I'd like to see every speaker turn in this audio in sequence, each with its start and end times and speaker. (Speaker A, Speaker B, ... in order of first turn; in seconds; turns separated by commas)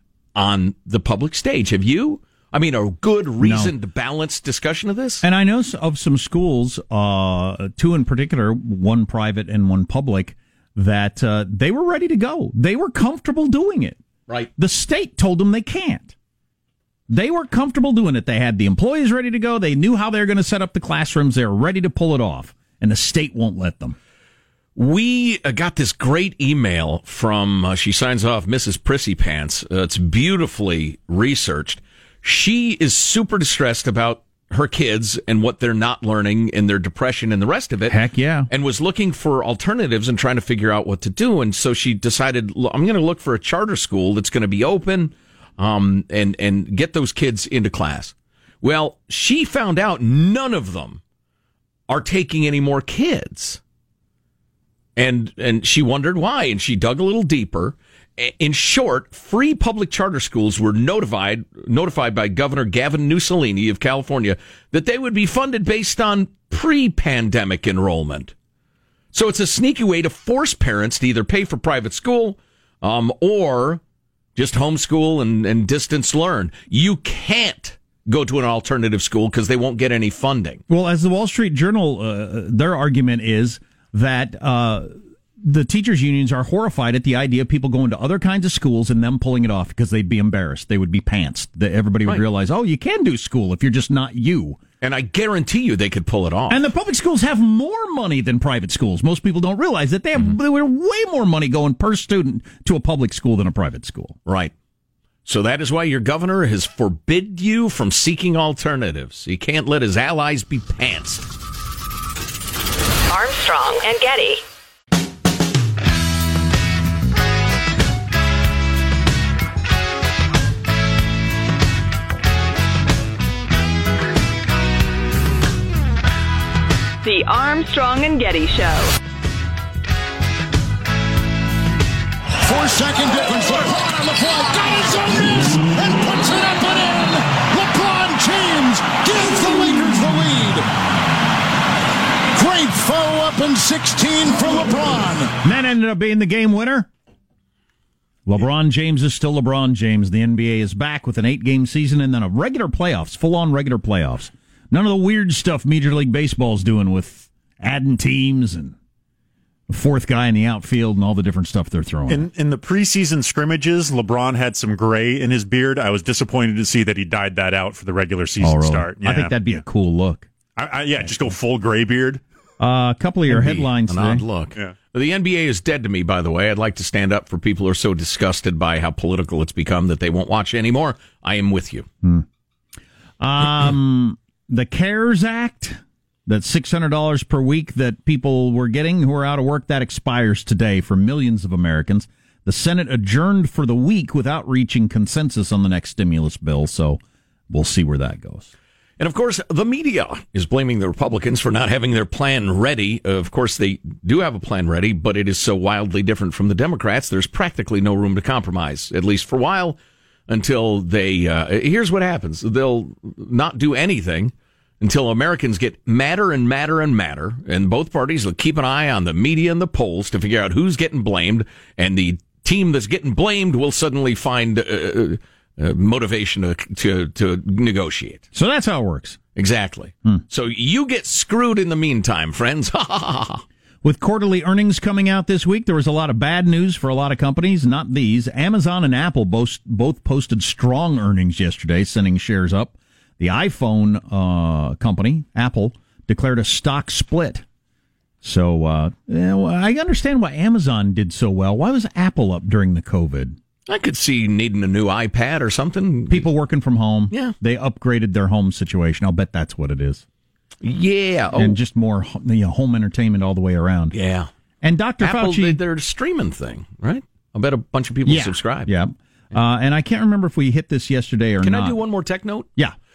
Speaker A: 0.4-5.2, Speaker B: 3.4-3.7, Speaker B: 5.2-14.0, Speaker B: 14.6-16.1, Speaker B: 17.1-24.0, Speaker A: 24.8-51.0, Speaker B: 37.9-38.5, Speaker A: 51.9-53.6, Speaker A: 55.0-68.3, Speaker A: 69.1-73.8, Speaker A: 74.4-80.6, Speaker B: 80.7-94.6, Speaker A: 94.8-96.7, Speaker B: 96.5-104.2, Speaker A: 104.3-104.5, Speaker A: 105.3-111.3, Speaker C: 113.1-114.4, Speaker C: 127.0-128.9, Speaker D: 132.4-140.7, Speaker D: 142.3-145.3, Speaker B: 145.4-146.9, Speaker B: 148.3-158.8, Speaker B: 159.7-162.3, Speaker E: 162.1-169.4, Speaker B: 168.4-170.3, Speaker E: 170.6-172.2, Speaker B: 171.0-171.3, Speaker B: 172.6-174.2, Speaker A: 173.3-181.9, Speaker B: 183.2-198.5, Speaker A: 199.0-209.8, Speaker A: 210.3-228.3, Speaker B: 228.3-229.2, Speaker A: 229.3-233.4, Speaker B: 233.8-247.4, Speaker B: 248.2-253.4, Speaker A: 253.7-256.3, Speaker B: 256.1-260.0, Speaker A: 260.6-261.6, Speaker B: 261.4-263.9, Speaker A: 263.9-264.3, Speaker B: 264.6-265.6, Speaker A: 265.0-268.7, Speaker B: 268.1-271.8, Speaker A: 271.4-272.5